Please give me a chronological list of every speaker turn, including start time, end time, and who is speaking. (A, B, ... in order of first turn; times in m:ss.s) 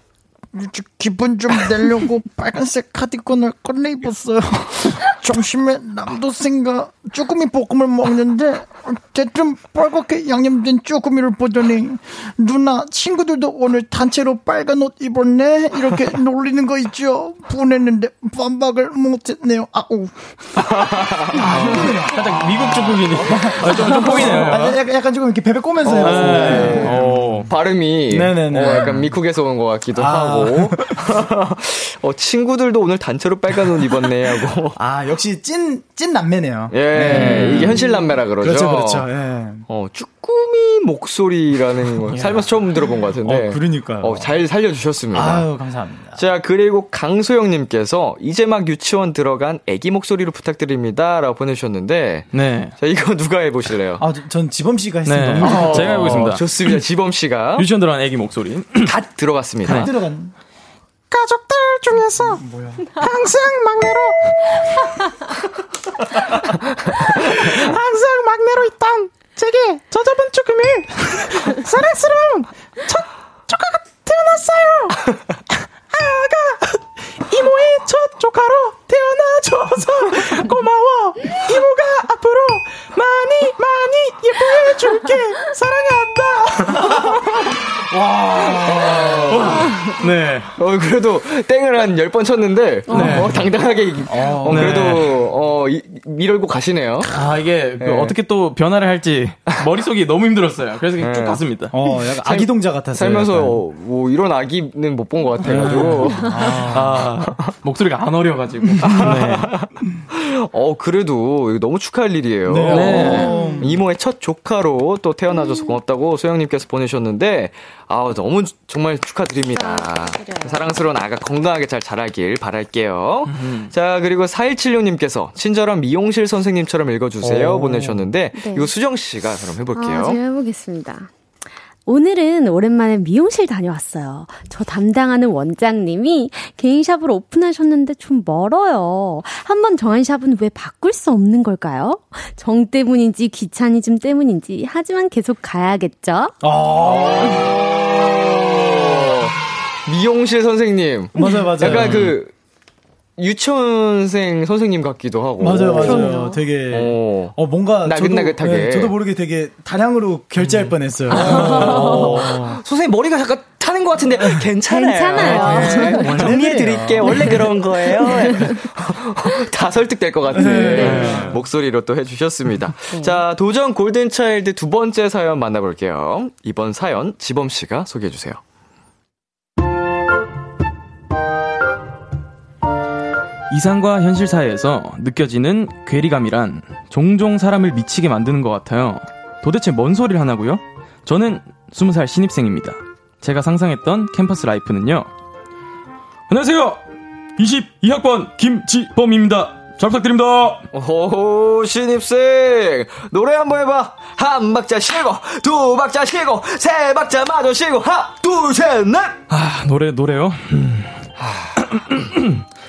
0:00.5-0:27.5 A
0:20.6-0:22.0 B
0:21.4-0:24.7 C
0:23.2-0:24.8 B
0:25.8-0:34.8 B
0:26.0-0:27.5 C
0:28.1-0:29.1 A
0:29.9-0:31.0 A
0:34.8-0:37.9 A
0:36.7-0:39.1 B
0:37.0-0:37.8 C
0:38.4-0:39.7 A
0:39.7-0:45.5 B
0:42.1-0:44.4 A
0:45.1-0:46.2 A
0:46.2-0:54.0 B
0:52.3-0:52.8 C
0:54.0-0:56.3 A
0:55.0-0:56.8 C
0:55.4-0:57.7 B
0:57.6-0:58.9 C
0:58.8-0:59.9 B
0:59.6-1:00.3 A
0:59.6-0:59.9 C
1:01.1-1:05.0 D
1:02.4-1:02.9 A
1:07.0-1:15.2 D
1:15.9-1:27.2 D
1:27.9-1:29.6 A
1:28.4-1:29.9 B
1:29.3-1:30.5 C
1:30.6-1:37.2 B
1:32.9-1:33.3 E
1:32.9-1:33.5 C
1:34.1-1:35.2 A
1:34.5-1:35.1 C
1:37.1-1:41.7 C
1:37.8-1:38.2 B
1:41.0-1:41.4 B
1:41.7-1:43.6 A
1:42.0-1:47.5 B
1:45.4-1:47.0 A
1:45.4-1:49.5 C
1:48.6-1:49.1 A
1:48.8-2:10.2 B
1:52.5-1:53.8 A
1:52.7-1:53.3 C
1:53.0-1:53.8 E
1:55.3-1:55.7 E
1:59.5-2:00.7 E
2:03.3-2:03.7 C
2:07.2-2:08.0 A
2:08.3-2:08.7 E
2:09.7-2:11.1 E
2:11.9-2:26.3 E
2:26.4-2:27.8 A
2:26.9-2:32.3 B
2:31.2-2:32.1 A
2:31.6-2:32.2 C
2:33.2-2:36.2 B
2:35.4-2:42.6 A
2:35.8-2:36.4 E
2:36.7-2:38.9 B
2:41.1-2:58.4 B
2:41.1-2:42.1 E
2:41.7-2:42.0 C
2:44.2-2:44.5 A
2:44.7-2:46.1 E
2:45.2-2:47.5 A
2:47.1-2:48.6 E
2:50.3-2:51.4 A
2:50.4-2:51.1 E
2:50.7-2:51.4 C
2:52.9-2:53.2 E
3:03.5-3:15.1 C
3:16.3-3:16.8 C
3:17.4-3:20.6 C
3:20.7-3:29.2 B
3:29.3-3:31.0 C
3:31.2-3:31.6 B
3:31.7-3:32.2 C